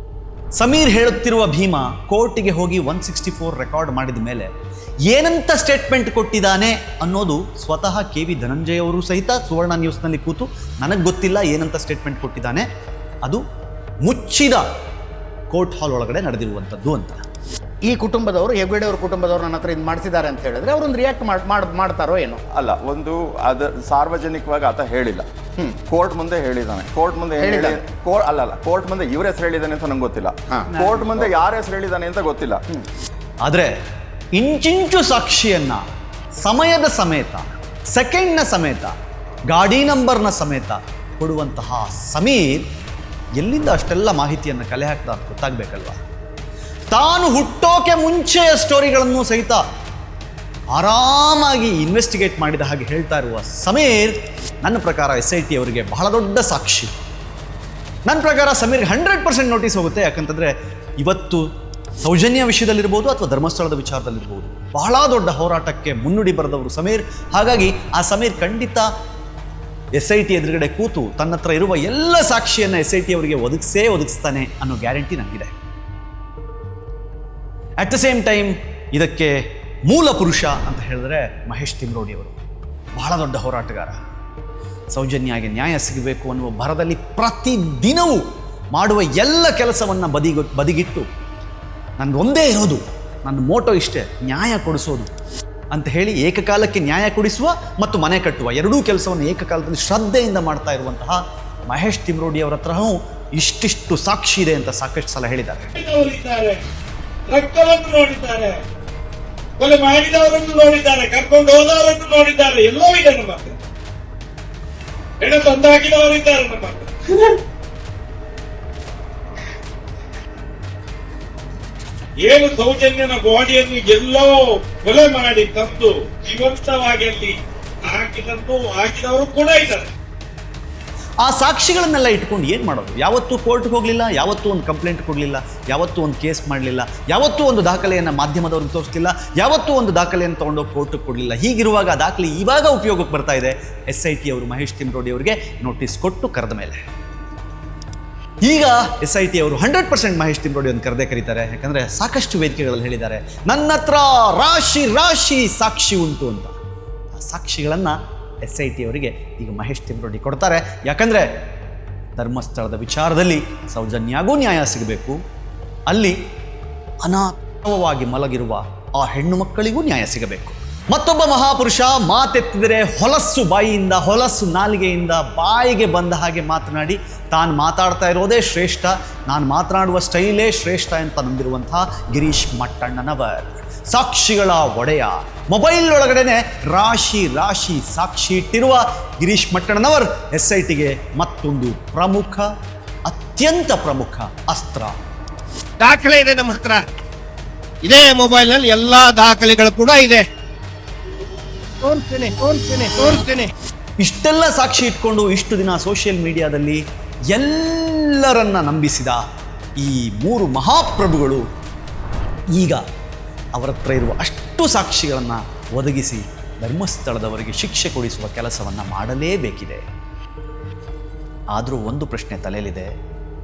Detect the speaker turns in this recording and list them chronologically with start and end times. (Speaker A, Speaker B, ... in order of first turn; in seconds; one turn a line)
Speaker A: 0.6-4.5
Speaker A: 5.1-12.7
Speaker A: 14.1-14.7
Speaker A: 15.5-17.2
Speaker B: 17.8-22.4
Speaker C: 22.5-32.8
Speaker B: 27.4-27.8
Speaker B: 30.7-31.3
Speaker A: 33.5-33.7
Speaker A: 34.4-35.9
Speaker A: 36.4-39.0
Speaker A: 39.5-42.7
Speaker A: 43.4-46.0
Speaker A: 46.9-49.6
Speaker A: 50.7-56.9
Speaker A: 58.1-61.4
Speaker A: 62.0-68.9
Speaker A: 70.0-75.5
Speaker A: 77.8-82.4
Speaker A: 83.0-84.0
Speaker A: 84.9-91.1
Speaker A: 92.0-95.1
Speaker A: 95.7-105.7
Speaker D: 105.8-106.6
Speaker D: 107.3-108.6
Speaker D: 109.6-113.5
Speaker D: 115.2-117.4
Speaker D: 122.2-129.9
Speaker A: 131.2-146.8
Speaker A: 148.4-156.6
Speaker A: 157.1-161.4
Speaker A: 162.2-165.2
Speaker A: 165.9-166.2
Speaker A: 167.0-192.5
Speaker A: 193.1-195.0
Speaker E: 195.8-196.8
Speaker E: 197.8-200.2
Speaker E: 201.8-203.5
Speaker A: 204.0-209.2
Speaker A: 209.8-211.5
Speaker A: 212.5-212.8
Speaker A: 213.6-219.8
Speaker A: 221.5-222.9